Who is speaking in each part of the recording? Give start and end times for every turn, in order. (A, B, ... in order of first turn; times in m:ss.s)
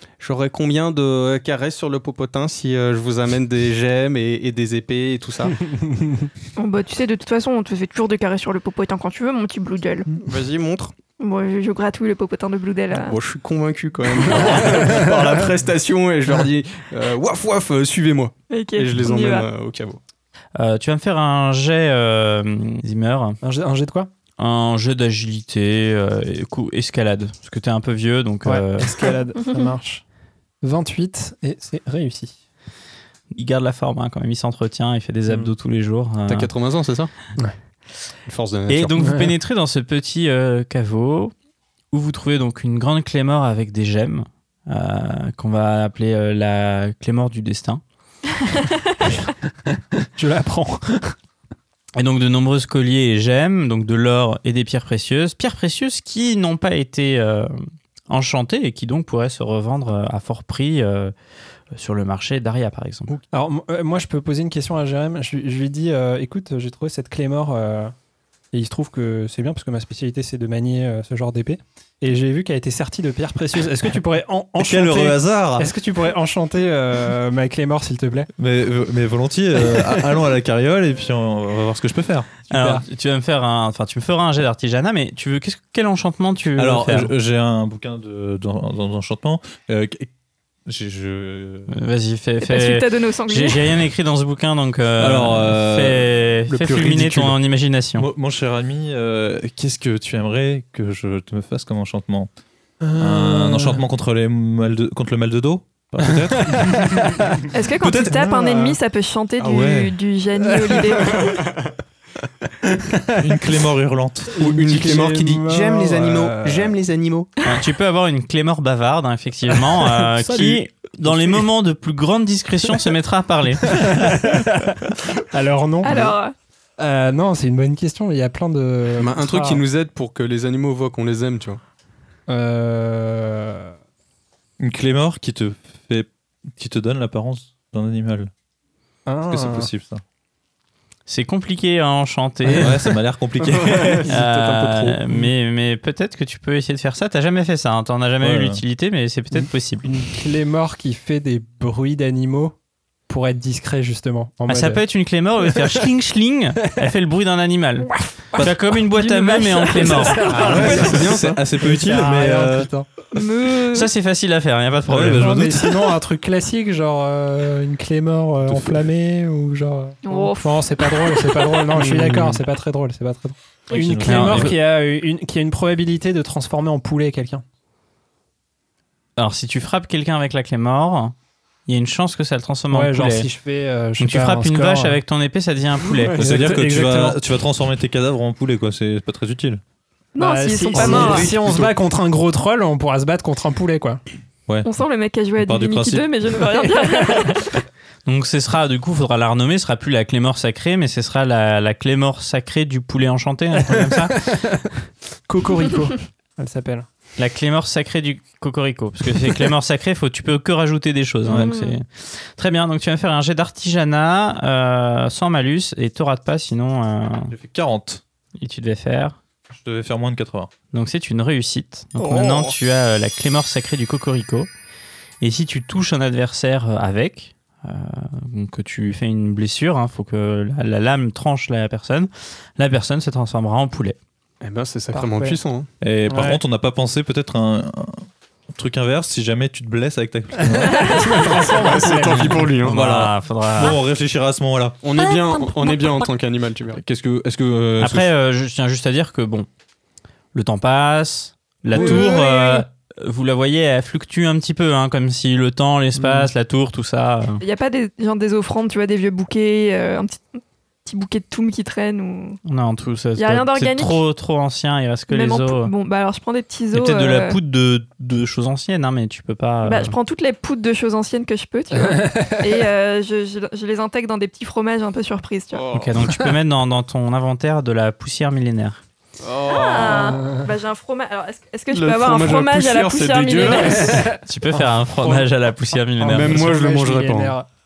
0:00.2-0:05.6 A
0:05.8-0:06.3 B
0:06.6-0:10.1 C
0:10.2-0:10.9 A
0:11.2-0:13.2 C
0:12.9-0:20.0 A
0:14.3-0:14.7 C
0:18.5-0:19.5 C
0:20.6-0:23.4 D
0:23.4-0:24.1 B
0:24.4-0:29.1 D
0:28.4-0:30.0 B
0:30.6-0:32.4 B
0:33.3-0:36.5 D
0:36.3-0:37.1 A
0:38.3-0:39.0 A
0:38.7-0:41.3 D
0:39.0-0:39.3 B
0:41.9-0:47.8 D
0:49.7-0:51.1 B
0:52.0-0:57.5 D
0:58.1-1:01.1 D
1:01.7-1:03.1 D
1:03.3-1:07.9 B
1:08.5-1:18.3 B
1:14.6-1:15.7 E
1:18.4-1:22.3 E
1:22.5-1:22.8 B
1:22.5-1:27.1 D
1:26.6-1:30.1 E
1:30.6-1:31.7 E
1:31.7-1:38.1 D
1:32.4-1:33.8 C
1:35.0-1:36.1 E
1:36.5-1:37.3 A
1:38.0-1:42.3 E
1:42.8-1:43.8 B
1:43.0-1:47.1 E
1:46.1-1:47.5 B
1:47.5-1:51.4 C
1:47.8-1:48.8 E
1:49.4-1:49.6 A
1:49.4-1:50.0 E
1:51.0-1:51.7 A
1:52.7-1:53.2 B
1:53.2-1:54.3 E
1:54.3-1:56.7 B
1:54.4-1:57.3 A
1:57.4-2:04.0 D
1:59.7-2:01.4 B
2:03.6-2:06.1 B
2:05.8-2:06.3 C
2:06.8-2:09.6 B
2:09.0-2:11.6 A
2:12.3-2:13.7 B
2:14.6-2:18.3 E
2:19.0-2:19.7 B
2:19.3-2:20.0 E
2:21.1-2:22.7 D
2:22.6-2:24.1 E
2:23.4-2:25.0 A
2:24.1-2:29.9 D
2:28.2-2:28.6 E
2:29.3-2:32.5 B
2:33.1-2:34.8 B
2:34.5-2:40.9 D
2:35.5-2:35.8 B
2:38.0-2:38.7 B
2:39.0-2:40.6 C
2:39.7-2:42.9 B
2:40.3-2:41.4 A
2:40.5-2:42.7 E
2:43.1-2:43.9 C
2:43.7-2:45.5 D
2:44.9-2:45.8 E
2:45.2-2:57.4 B
2:48.4-2:48.8 E
2:50.0-2:51.1 C
2:51.7-2:52.4 A
2:53.7-2:54.6 E
2:53.8-2:54.6 D
2:59.2-3:01.1 D
3:01.7-3:03.3 D
3:02.7-3:05.0 B
3:04.0-3:06.2 D
3:06.1-3:07.2 B
3:06.2-3:09.6 E
3:10.2-3:11.3 C
3:10.2-3:14.0 B
3:10.7-3:11.6 A
3:10.8-3:11.7 E
3:14.6-3:17.5 C
3:15.4-3:16.1 E
3:16.5-3:17.4 B
3:18.0-3:24.2 D
3:23.6-3:24.7 B
3:25.3-3:26.9 B
3:27.2-3:37.3 D
3:31.3-3:31.8 C
3:37.3-3:38.0 E
3:38.4-3:39.2 D
3:39.5-3:40.5 E
3:40.7-3:44.5 D
3:42.0-3:42.5 A
3:45.2-3:54.0 D
3:54.4-3:55.7 A
3:54.9-3:55.4 B
3:55.8-4:01.1 E
3:56.1-3:56.4 B
4:00.4-4:02.5 B
4:01.2-4:02.8 A
4:02.5-4:03.8 D
4:02.6-4:04.8 E
4:04.8-4:06.8 A
4:06.7-4:08.1 E
4:07.8-4:09.5 D
4:10.3-4:17.4 D
4:11.8-4:12.0 A
4:11.8-4:12.6 C
4:17.4-4:22.4 C
4:22.4-4:25.7 D
4:23.2-4:24.0 C
4:25.1-4:27.4 C
4:26.7-4:30.0 D
4:29.6-4:35.6 C
4:31.9-4:32.4 B
4:35.5-4:36.0 A
4:35.7-4:38.8 D
4:39.2-4:40.3 A
4:39.5-4:44.1 C
4:41.7-4:44.0 A
4:43.8-4:45.3 B
4:44.2-4:46.6 D
4:46.0-4:47.5 B
4:46.0-4:47.3 A